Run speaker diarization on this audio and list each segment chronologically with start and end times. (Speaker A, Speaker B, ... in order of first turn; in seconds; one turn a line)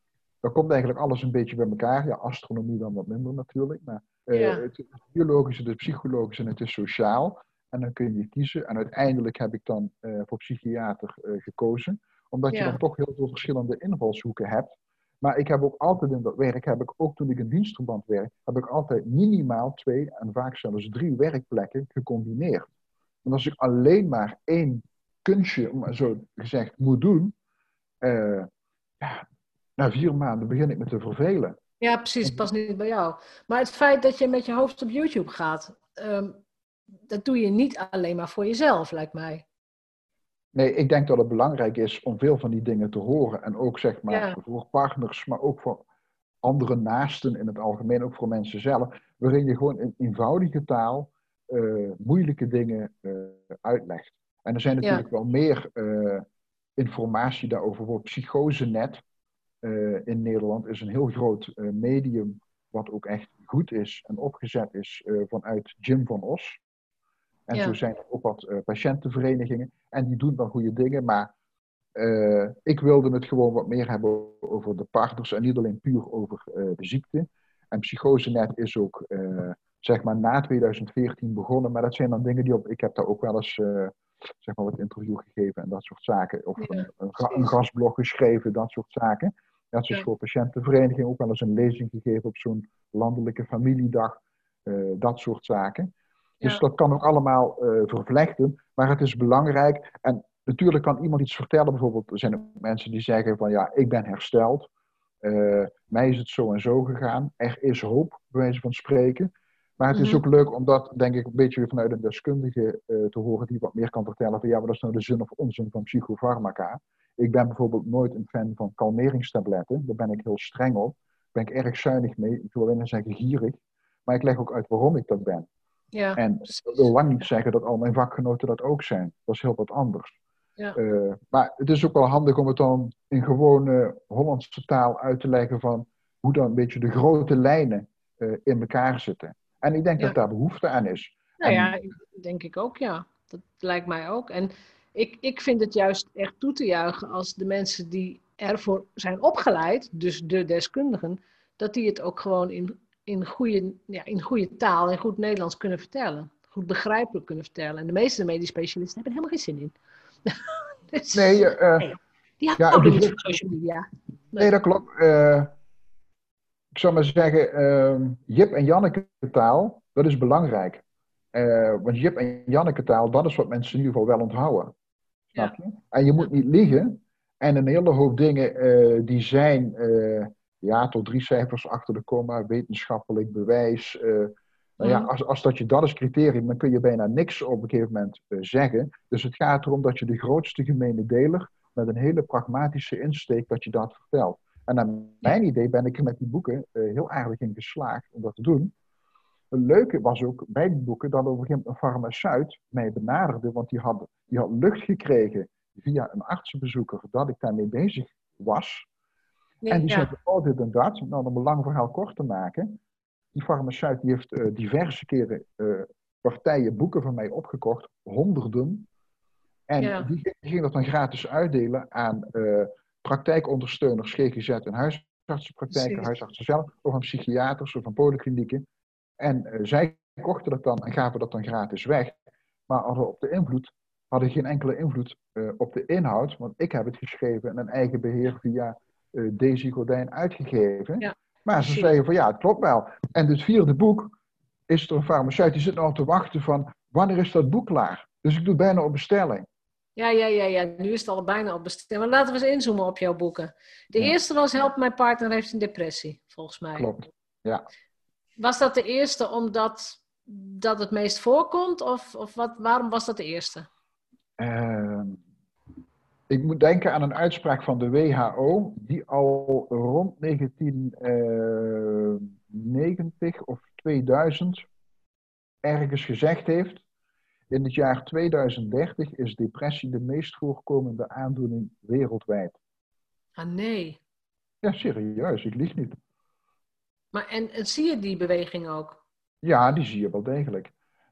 Speaker A: 0.4-22.7
Speaker B: 4.3-4.7
Speaker B: 12.5-12.8
Speaker A: 23.2-27.4
Speaker A: 28.0-28.5
Speaker A: 29.8-31.6
Speaker B: 31.8-36.4
Speaker B: 37.1-39.4
Speaker A: 40.5-45.8
Speaker B: 44.1-44.4
Speaker A: 46.4-56.2
Speaker A: 56.8-59.0
Speaker A: 59.6-66.6
Speaker A: 67.5-71.3
Speaker A: 72.0-104.7
Speaker B: 86.6-87.5
Speaker A: 105.2-125.5
Speaker B: 109.9-110.2
Speaker B: 125.9-126.8
Speaker A: 126.2-130.2
Speaker A: 130.8-141.7
Speaker B: 141.4-159.8
Speaker B: 160.3-164.5
Speaker A: 161.1-161.9
Speaker A: 162.6-163.2
Speaker A: 164.4-165.5
Speaker A: 166.7-170.8
Speaker A: 171.3-174.7
Speaker A: 175.4-198.7
Speaker B: 184.8-185.1
Speaker A: 199.5-208.9
Speaker B: 209.6-210.1
Speaker A: 209.7-212.8
Speaker A: 213.3-218.9
Speaker A: 219.7-228.6
Speaker B: 219.8-220.1
Speaker B: 225.7-226.1
Speaker A: 229.2-232.2
Speaker A: 232.7-244.1
Speaker B: 241.0-241.9
Speaker A: 244.7-249.4
Speaker B: 249.9-257.0
Speaker A: 256.8-257.6
Speaker B: 258.4-263.7
Speaker A: 264.4-265.2
Speaker A: 266.3-274.6
Speaker A: 275.6-276.8
Speaker A: 277.5-282.6
Speaker B: 283.4-284.0
Speaker A: 284.6-285.9
Speaker B: 287.1-289.0
Speaker A: 289.4-290.7